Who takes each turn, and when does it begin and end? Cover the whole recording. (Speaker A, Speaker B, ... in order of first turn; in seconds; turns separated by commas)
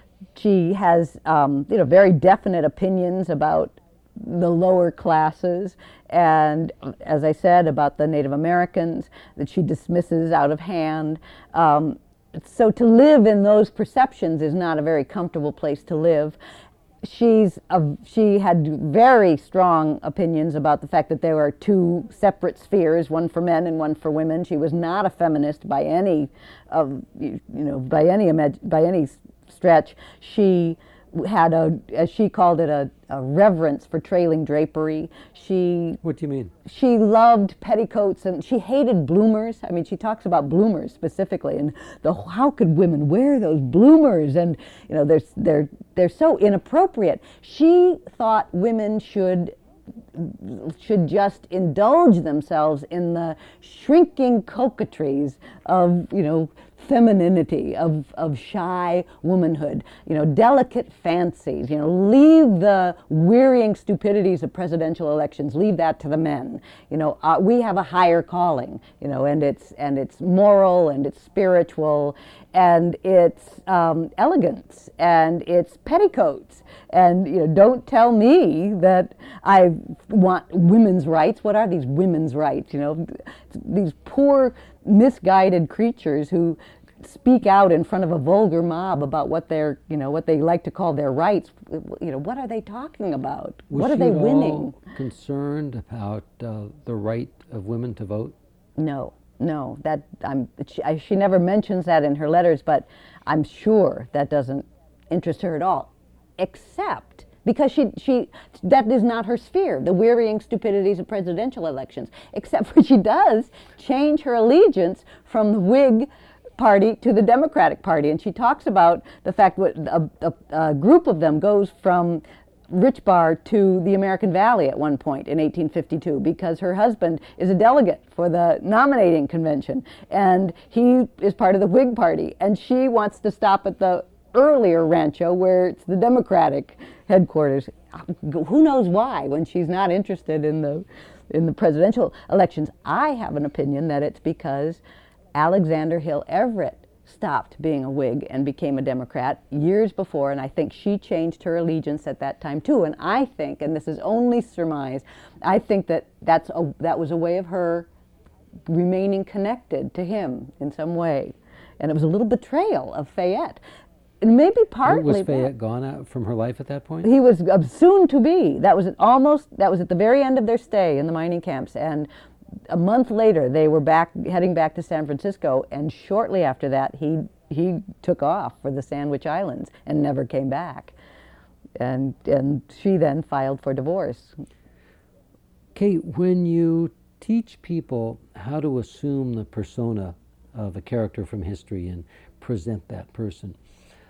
Speaker A: 0.3-16.4, Speaker A: 17.0-36.0, Speaker B: 36.0-36.5, Speaker A: 36.6-49.5, Speaker A: 50.1-94.8, Speaker B: 93.7-98.3, Speaker A: 98.8-144.8, Speaker A: 145.3-157.9, Speaker A: 158.7-163.6, Speaker A: 164.2-165.5, Speaker B: 164.8-167.1, Speaker A: 167.0-172.1, Speaker A: 172.7-180.9, Speaker A: 181.8-184.3, Speaker B: 185.7-193.6